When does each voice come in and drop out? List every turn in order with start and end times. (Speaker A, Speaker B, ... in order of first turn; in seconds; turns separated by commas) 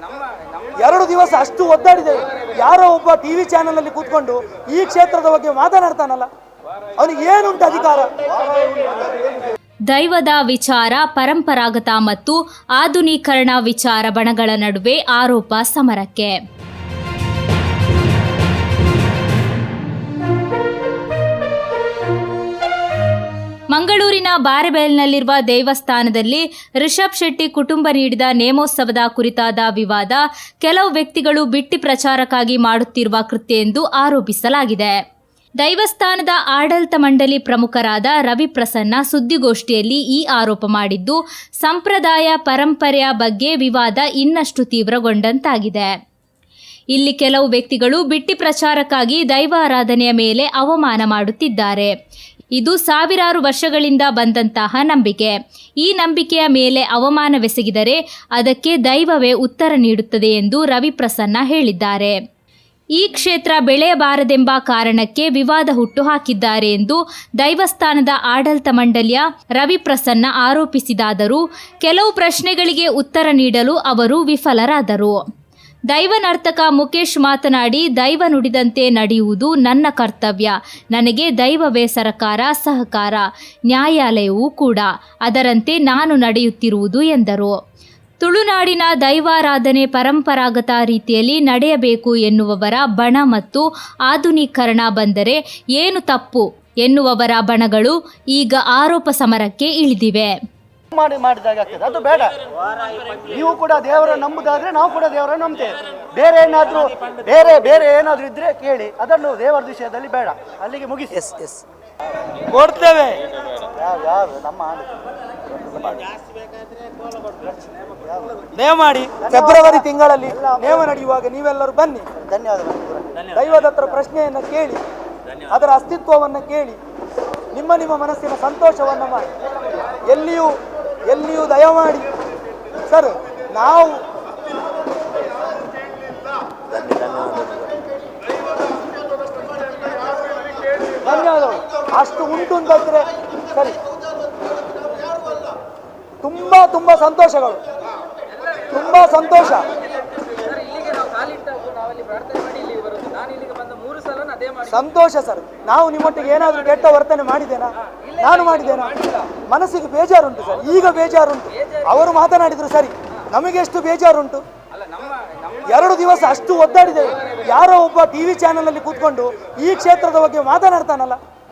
Speaker A: 0.8-6.3, Speaker A: 7.0-8.3, Speaker B: 9.9-16.4, Speaker B: 23.7-34.9, Speaker B: 35.6-45.9, Speaker B: 46.9-51.9, Speaker B: 52.6-62.1, Speaker B: 63.0-75.2, Speaker B: 75.9-87.5, Speaker B: 88.2-100.3, Speaker C: 100.9-102.4, Speaker C: 103.0-111.1, Speaker A: 111.1-111.6, Speaker A: 112.5-113.2, Speaker C: 113.6-115.0, Speaker C: 117.8-118.4, Speaker A: 118.5-122.1, Speaker C: 119.2-120.8, Speaker C: 122.2-123.2, Speaker A: 123.2-124.8, Speaker A: 125.5-126.8, Speaker A: 127.5-129.3, Speaker A: 130.0-130.5, Speaker A: 131.1-132.1, Speaker A: 132.9-134.0, Speaker A: 136.9-137.4, Speaker A: 141.0-143.8, Speaker A: 146.2-147.6, Speaker A: 148.7-149.7, Speaker A: 154.6-159.0, Speaker A: 159.5-164.4, Speaker A: 165.7-171.2